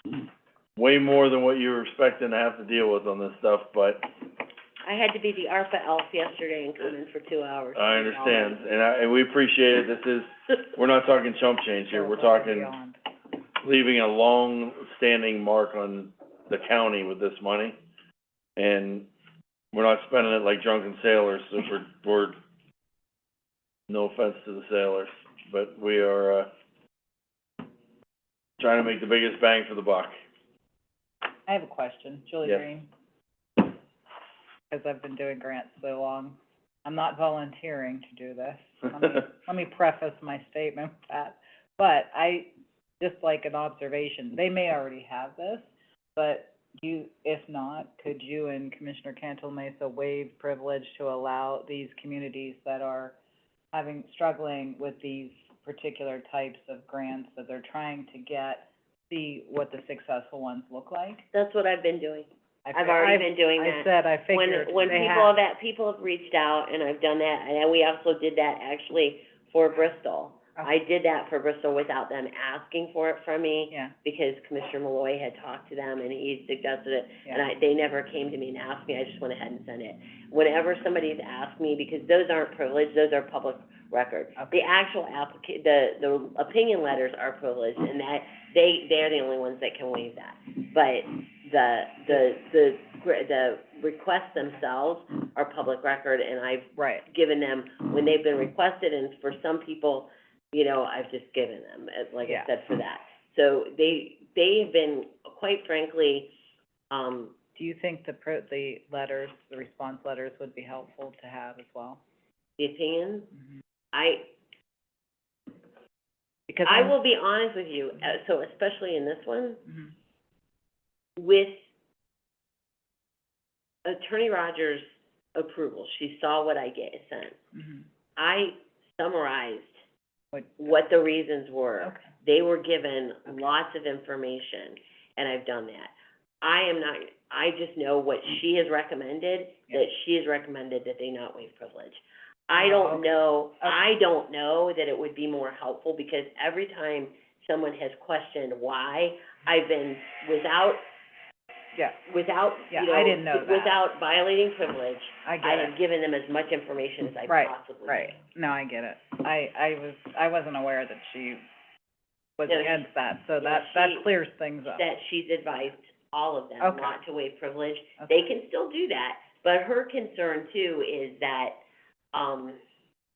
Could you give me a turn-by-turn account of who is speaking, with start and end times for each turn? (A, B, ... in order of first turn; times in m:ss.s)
0:00.8-0:04.1 A
0:04.8-0:08.6 B
0:07.8-0:12.7 A
0:11.9-0:13.0 C
0:13.6-0:17.8 A
0:18.6-0:19.1 A
0:19.7-0:22.4 A
0:23.9-0:26.5 A
0:28.6-0:30.1 A
0:31.5-0:32.9 C
0:34.7-0:53.2 C
0:53.7-1:01.2 C
1:01.3-1:46.3 B
1:02.6-1:05.3 C
1:24.4-1:24.7 C
1:36.8-1:37.1 C
1:46.9-1:47.4 B
1:47.6-1:52.0 C
1:52.6-1:53.3 B
1:53.3-1:53.6 C
1:53.9-1:54.3 B
1:56.5-1:56.9 C
1:56.6-1:59.6 B
1:59.7-1:59.9 C
2:01.2-2:01.6 B
2:03.8-2:04.8 B
2:05.3-2:07.4 B
2:07.5-2:07.8 C
2:08.2-2:09.8 B
2:10.3-2:10.7 C
2:10.6-2:30.8 B
2:11.8-2:12.1 C
2:22.6-2:23.8 C
2:32.1-2:38.2 B
2:32.7-2:33.7 C
2:35.2-2:35.7 C
2:37.3-2:41.4 C
2:42.4-2:44.9 C
2:42.5-2:42.9 B
2:43.4-2:44.1 B
2:44.7-2:51.6 B
2:46.6-2:47.0 C
2:48.0-2:48.2 C
2:52.1-2:52.6 B